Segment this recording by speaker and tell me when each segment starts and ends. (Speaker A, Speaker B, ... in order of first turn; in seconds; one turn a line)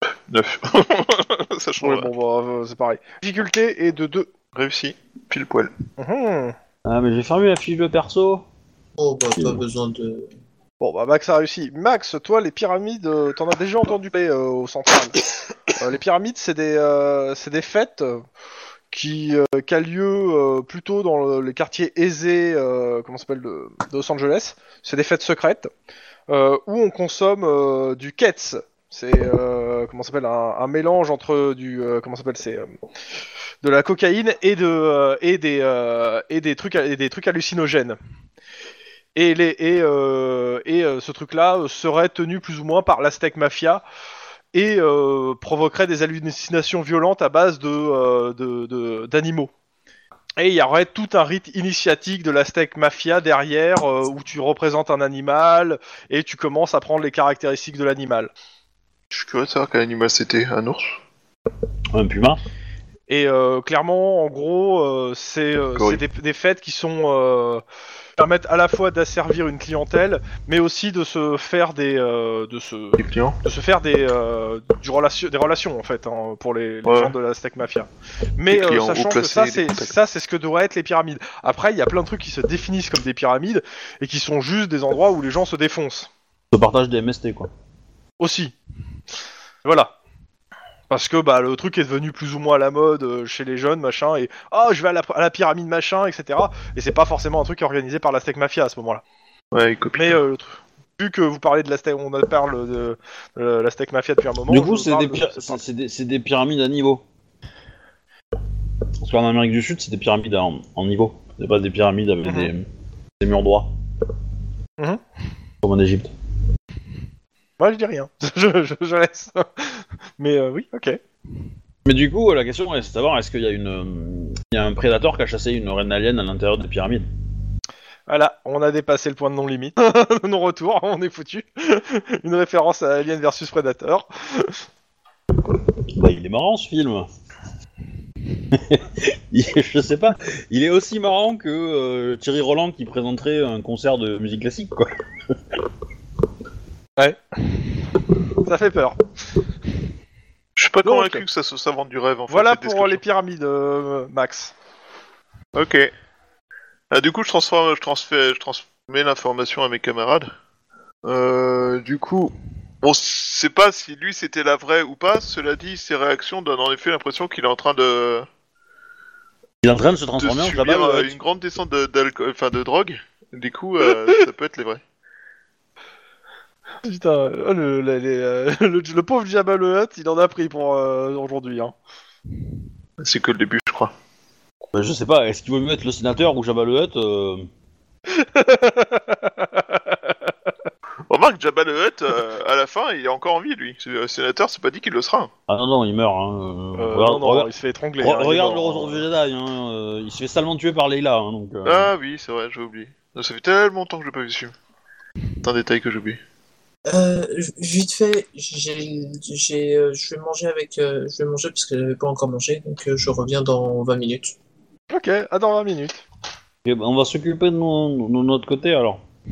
Speaker A: 0.3-2.1
Speaker B: 1.8-4.3
Speaker A: 4.5-5.7
Speaker B: 6.0-6.5
Speaker C: 6.8-8.4
Speaker D: 9.0-10.3
Speaker B: 10.8-15.2
Speaker B: 15.7-18.2
Speaker B: 18.9-25.7
Speaker B: 26.3-32.7
Speaker B: 33.6-38.0
Speaker B: 39.1-43.8
Speaker B: 44.5-49.5
Speaker B: 50.4-58.3
Speaker A: 59.1-61.0
Speaker C: 61.9-62.4
Speaker B: 63.1-67.6
Speaker A: 65.8-66.0
Speaker B: 68.2-86.1
Speaker A: 73.0-73.4
Speaker A: 76.8-77.1
Speaker A: 78.5-80.0
Speaker C: 86.5-87.5
Speaker B: 88.2-88.5
Speaker B: 89.6-89.9
Speaker B: 90.9-99.0
Speaker A: 99.5-100.2
Speaker B: 99.9-105.6
Speaker C: 104.5-107.0
Speaker C: 109.0-112.7
Speaker B: 112.2-112.5
Speaker C: 113.2-113.7
Speaker C: 115.6-116.1
Speaker B: 117.6-121.0
Speaker C: 121.8-127.0
Speaker B: 128.1-134.6
Speaker C: 135.9-137.1
Speaker C: 138.5-145.0
Speaker B: 148.4-149.0
Speaker A: 150.6-153.0
Speaker B: 150.8-151.2
Speaker B: 152.3-154.5
Speaker A: 155.5-155.9
Speaker A: 156.9-160.3
Speaker A: 161.0-168.2
Speaker C: 169.6-171.1
Speaker A: 170.2-174.8
Speaker B: 176.8-181.7
Speaker A: 183.0-183.9
Speaker C: 184.7-187.5
Speaker B: 188.1-189.8
Speaker A: 191.1-195.3
Speaker C: 195.5-201.9
Speaker B: 196.8-199.0
Speaker A: 201.6-204.5
Speaker A: 205.4-206.2
Speaker D: 206.9-214.3
Speaker B: 214.9-216.0
Speaker C: 216.6-219.0